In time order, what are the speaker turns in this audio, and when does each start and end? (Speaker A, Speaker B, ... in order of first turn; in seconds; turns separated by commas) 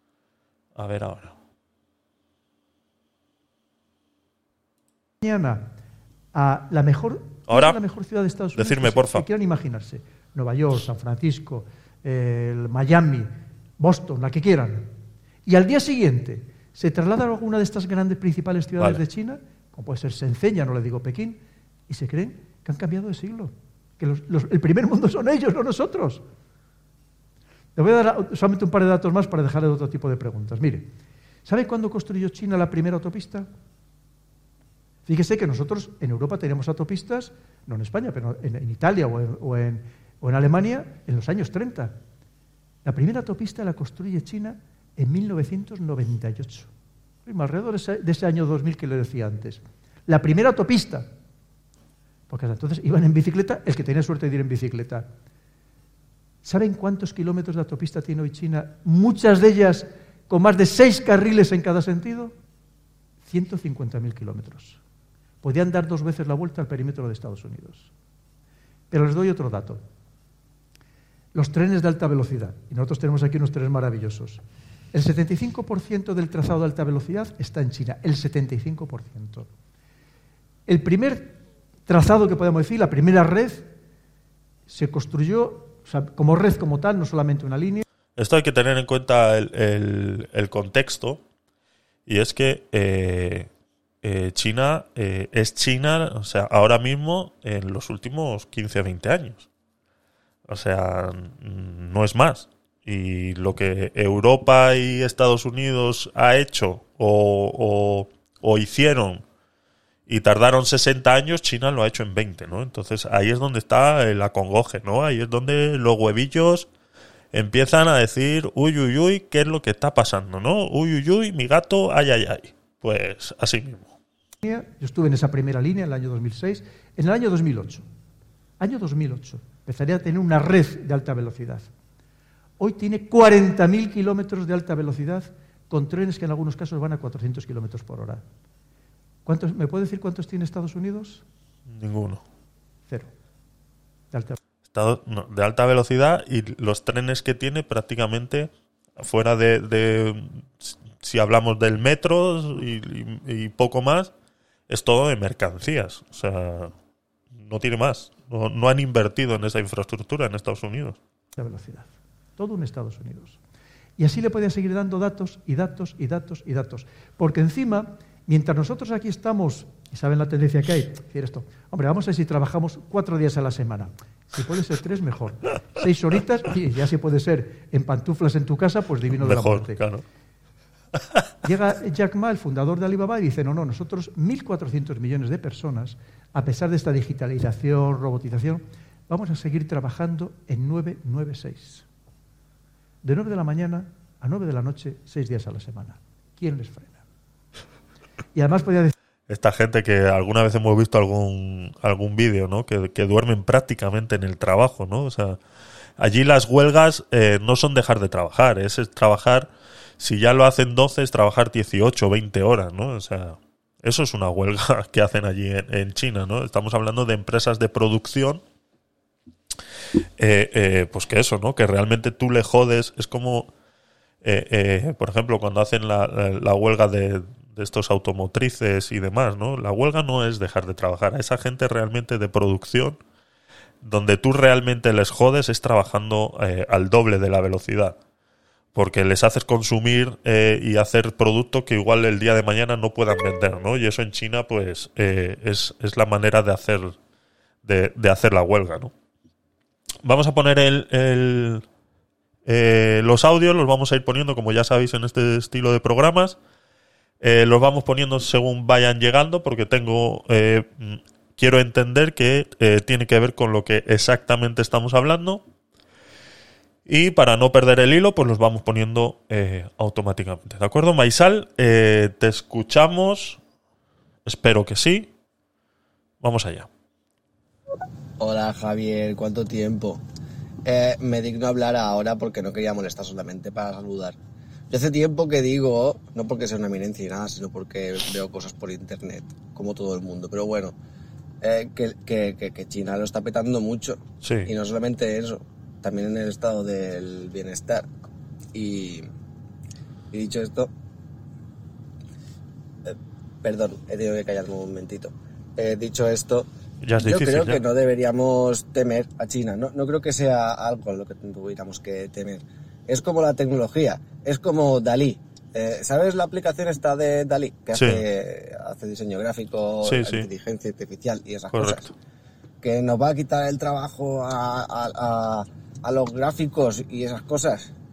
Speaker A: 0.8-1.4, Speaker B: 5.2-5.7, Speaker B: 6.3-14.9, Speaker A: 7.5-7.8, Speaker A: 8.6-9.2, Speaker B: 15.5-26.2, Speaker B: 27.8-30.9, Speaker B: 31.5-33.5, Speaker B: 35.1-42.0, Speaker B: 42.9-46.7, Speaker B: 47.3-51.1, Speaker B: 52.3-55.1, Speaker B: 56.4-62.3, Speaker B: 63.2-64.8, Speaker B: 65.4-67.9, Speaker B: 68.9-69.8, Speaker B: 71.3-74.4, Speaker B: 74.9-79.5, Speaker B: 80.7-83.7, Speaker B: 84.7-87.8, Speaker A: 88.2-91.2, Speaker A: 92.1-93.5, Speaker A: 94.0-99.5, Speaker A: 100.5-109.2, Speaker A: 110.1-116.7, Speaker A: 117.3-123.9, Speaker B: 124.4-127.8, Speaker B: 128.6-131.7, Speaker B: 132.6-138.2, Speaker B: 139.3-141.2, Speaker A: 141.7-142.2, Speaker B: 144.1-144.4, Speaker A: 144.7-154.1, Speaker A: 154.7-156.7, Speaker A: 157.3-161.0, Speaker B: 161.4-163.4, Speaker B: 164.0-179.8, Speaker A: 179.2-180.0, Speaker B: 181.4-191.8, Speaker B: 193.0-197.0, Speaker B: 198.3-198.9, Speaker A: 199.3-205.4, Speaker A: 206.0-218.4, Speaker A: 220.2-223.5, Speaker A: 224.2-233.0, Speaker A: 233.8-238.0, Speaker A: 238.8-247.0, Speaker A: 247.6-248.9, Speaker A: 250.0-251.7, Speaker A: 252.5-256.4, Speaker A: 257.2-265.4, Speaker A: 266.9-273.4, Speaker A: 274.2-275.1, Speaker A: 276.2-276.7, Speaker C: 278.2-280.0, Speaker C: 280.6-284.2, Speaker C: 284.7-290.8, Speaker C: 291.4-297.9, Speaker A: 294.2-294.5, Speaker C: 298.5-299.1, Speaker C: 300.1-300.7, Speaker C: 302.9-306.5, Speaker A: 306.8-307.6, Speaker C: 307.0-321.9, Speaker A: 317.7-318.0, Speaker A: 319.8-320.3, Speaker A: 321.5-321.9, Speaker C: 322.6-327.7